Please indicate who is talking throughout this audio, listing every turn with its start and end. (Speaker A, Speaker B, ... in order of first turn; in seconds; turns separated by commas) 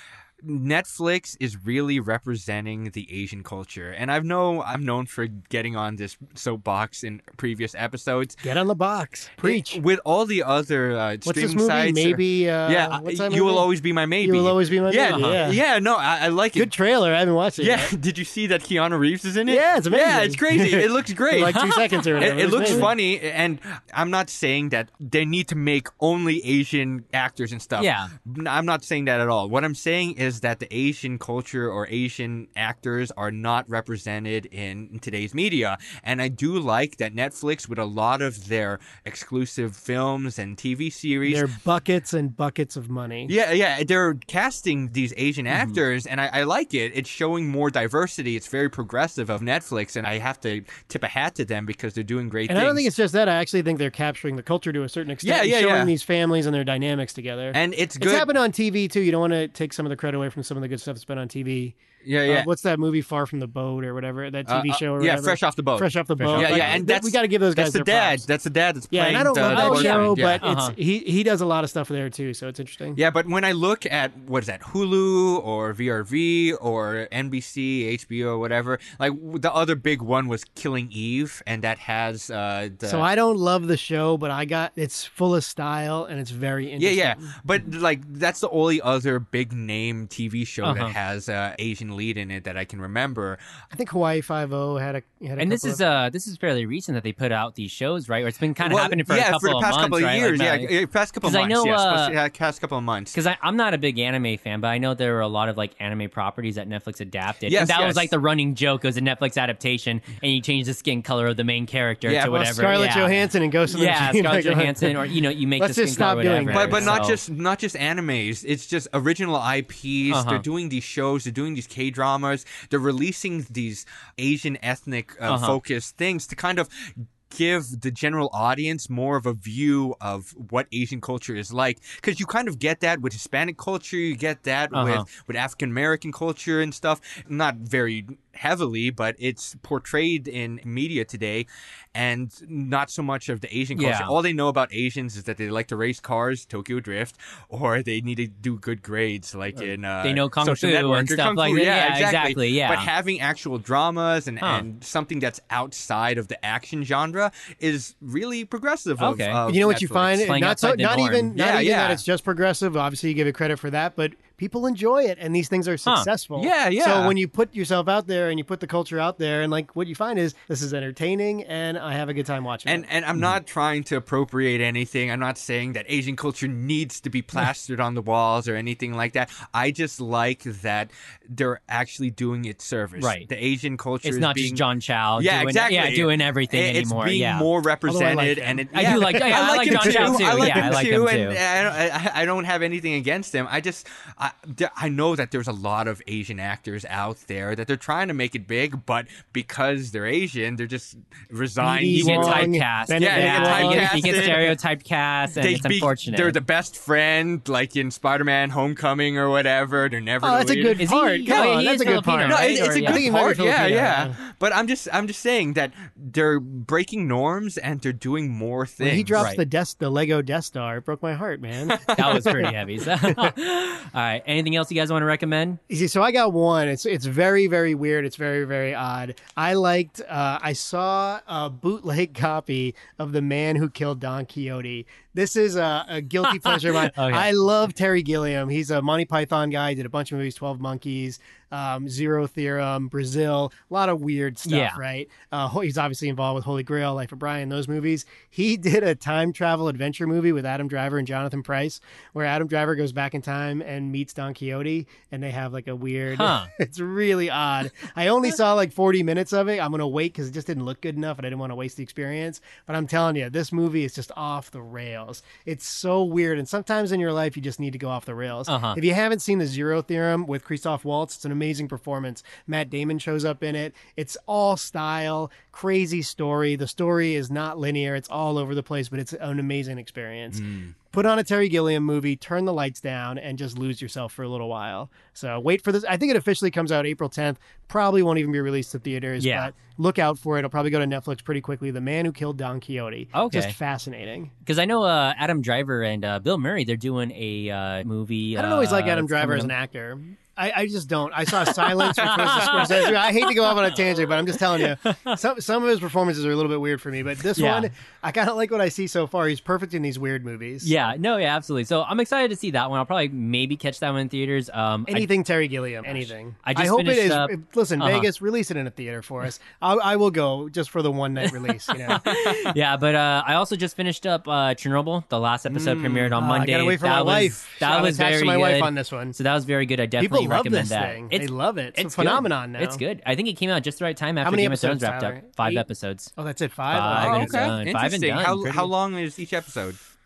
Speaker A: 0.4-8.4, Speaker B: 8.4-9.8, Speaker A: 9.4-16.7, Speaker B: 11.2-13.7, Speaker B: 14.2-15.6, Speaker C: 15.1-15.6, Speaker B: 16.6-17.9, Speaker A: 17.6-41.5, Speaker B: 19.5-22.9, Speaker C: 21.5-22.0, Speaker C: 27.8-28.1, Speaker B: 41.3-43.3, Speaker A: 43.3-52.9, Speaker C: 45.5-45.8, Speaker B: 52.5-68.2, Speaker A: 55.2-55.9, Speaker A: 57.5-58.3, Speaker A: 62.0-62.5, Speaker A: 64.5-70.4, Speaker C: 66.2-66.8, Speaker B: 68.9-73.0, Speaker C: 69.5-70.7, Speaker A: 73.0-83.0, Speaker B: 82.9-87.3, Speaker A: 86.8-93.4, Speaker C: 90.6-91.0, Speaker B: 93.7-95.8, Speaker C: 95.4-100.7, Speaker A: 98.6-103.2, Speaker C: 101.2-102.2, Speaker C: 103.1-117.2, Speaker A: 107.5-108.1, Speaker A: 112.1-112.4, Speaker B: 112.3-117.0, Speaker A: 116.5-160.2, Speaker C: 120.1-120.4, Speaker C: 125.3-125.6, Speaker C: 134.7-135.1, Speaker C: 143.8-144.2, Speaker C: 150.0-152.9, Speaker C: 159.0-159.4, Speaker B: 159.5-172.9, Speaker C: 160.2-161.3, Speaker A: 161.3-162.0, Speaker A: 166.4-167.2, Speaker A: 172.7-184.6, Speaker C: 183.0-183.3, Speaker C: 184.0-187.5, Speaker A: 185.2-204.6, Speaker B: 187.9-190.9, Speaker C: 188.7-191.4, Speaker B: 201.6-204.3, Speaker C: 201.9-206.4, Speaker A: 205.3-219.3, Speaker B: 210.2-214.2, Speaker C: 210.8-213.1, Speaker B: 218.8-223.3, Speaker C: 219.2-219.4, Speaker A: 221.6-222.4, Speaker C: 221.9-225.6, Speaker B: 225.7-294.3, Speaker C: 236.3-237.3, Speaker C: 244.5-244.8, Speaker C: 256.1-256.5, Speaker C: 268.5-268.8, Speaker A: 280.3-280.7, Speaker C: 289.2-289.5, Speaker C: 293.1-293.6, Speaker C: 294.4-299.5, Speaker B: 298.4-310.7, Speaker C: 301.4-303.5, Speaker C: 304.5-305.2, Speaker C: 307.4-307.7, Speaker C: 310.6-315.1, Speaker B: 314.9-322.1, Speaker C: 316.4-318.1, Speaker C: 321.7-336.1, Speaker A: 322.0-322.5, Speaker A: 325.5-326.1, Speaker B: 326.1-329.2, Speaker B: 330.0-332.8, Speaker B: 334.2-335.6, Speaker B: 336.2-337.6, Speaker C: 336.7-338.7, Speaker A: 336.9-339.8